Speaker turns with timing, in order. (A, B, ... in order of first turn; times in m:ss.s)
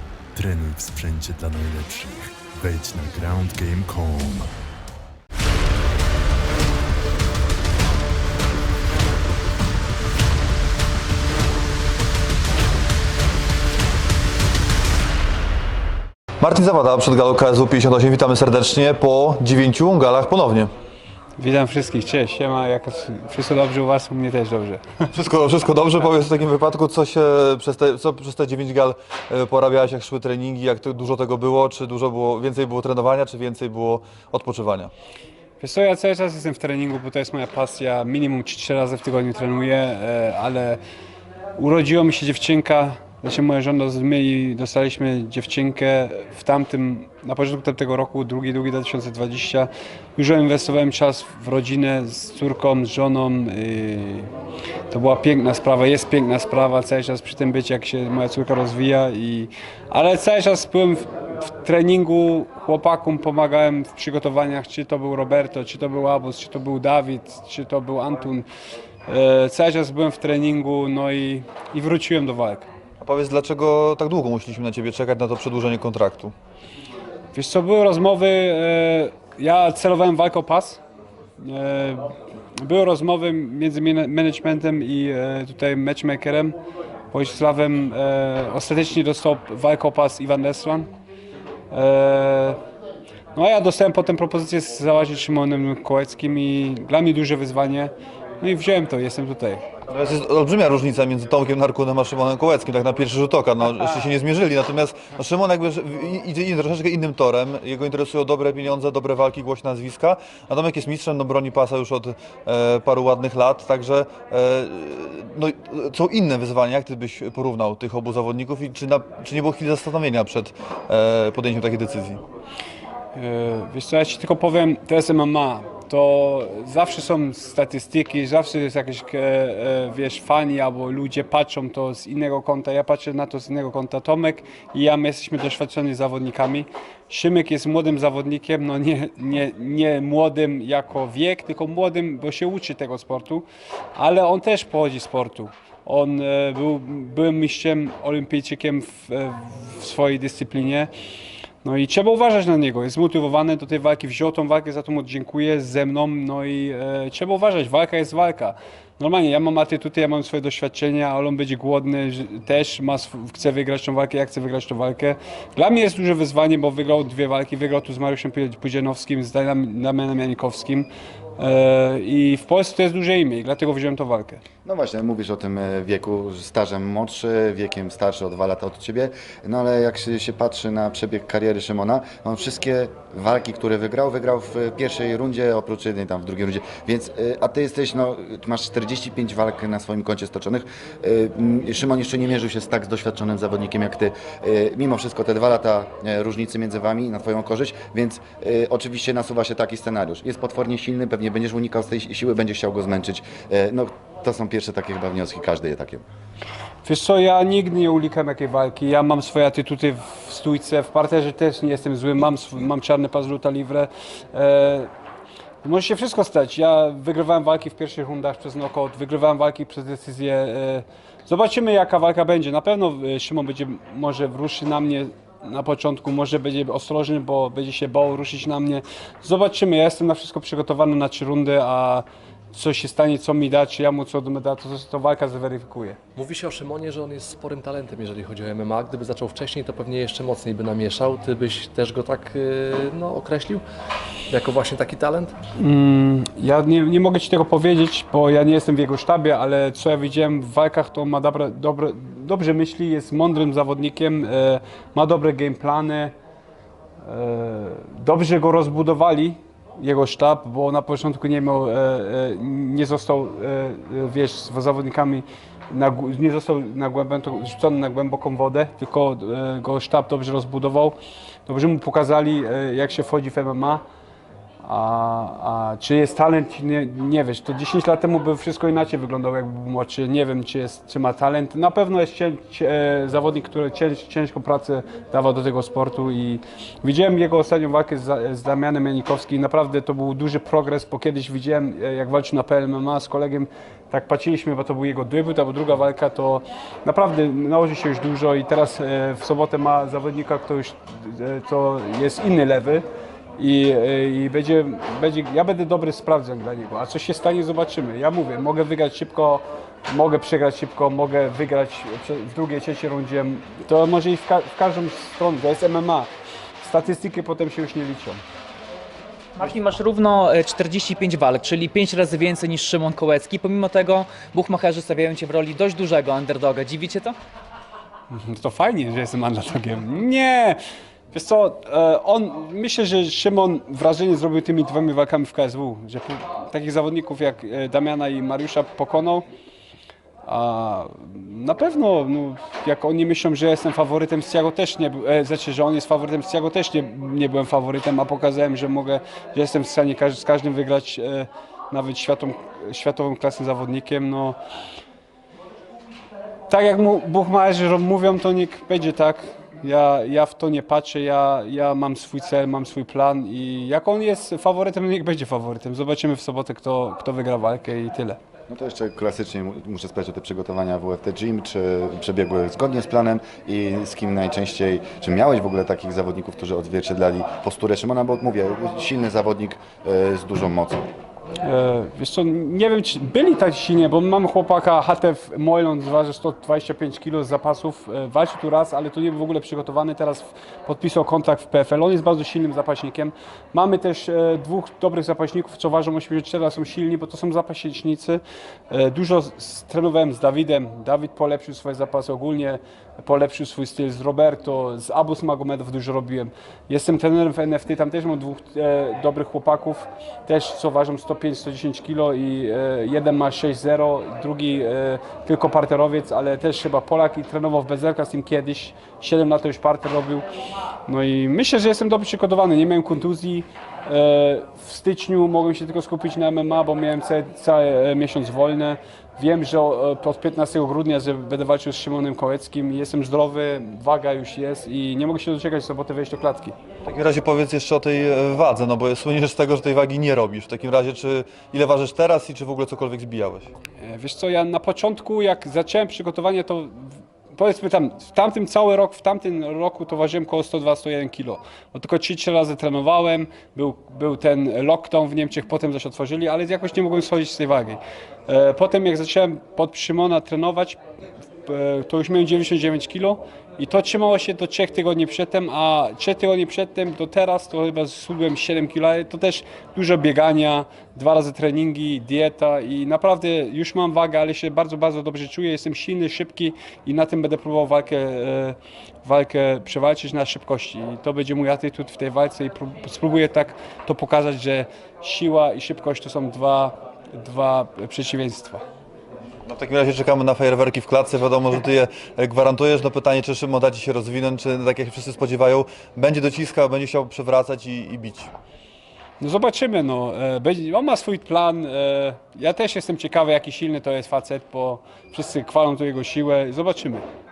0:00.4-0:04.6 A
0:16.4-0:20.7 B
0:21.4-0:25.0 C
0:25.1-0:34.9 B
0:35.6-0:40.8 C
0:41.6-0:54.3 C
0:54.9-1:08.4 C
1:09.1-1:12.7 C
1:13.0-1:16.3 B
1:17.3-1:20.8 C
1:21.4-1:26.6 C
1:27.1-1:30.9 C
1:31.7-1:32.6 C
1:33.3-1:39.6 C
1:39.9-2:02.2 B
2:03.1-2:30.9 C
2:31.6-2:54.4 C
2:54.6-3:26.0 D
3:26.8-3:34.9 C
3:35.6-3:56.0 C
3:56.2-4:03.6 E
4:04.3-4:05.4 E
4:05.6-4:16.1 C
4:17.0-4:33.8 C
4:34.6-5:02.8 C
5:03.4-5:16.1 C
5:16.6-5:18.2 C
5:19.4-5:27.1 F
5:28.1-5:30.6 C
5:31.1-5:39.2 C
5:40.2-5:54.4 C
5:56.5-6:08.2 C
6:08.5-6:20.8 D
6:21.4-7:00.2 C
7:00.9-7:16.5 C
7:16.8-7:23.5 B
7:23.8-7:40.8 C
7:41.4-8:08.6 C
8:09.5-8:18.3 B
8:19.2-8:27.0 C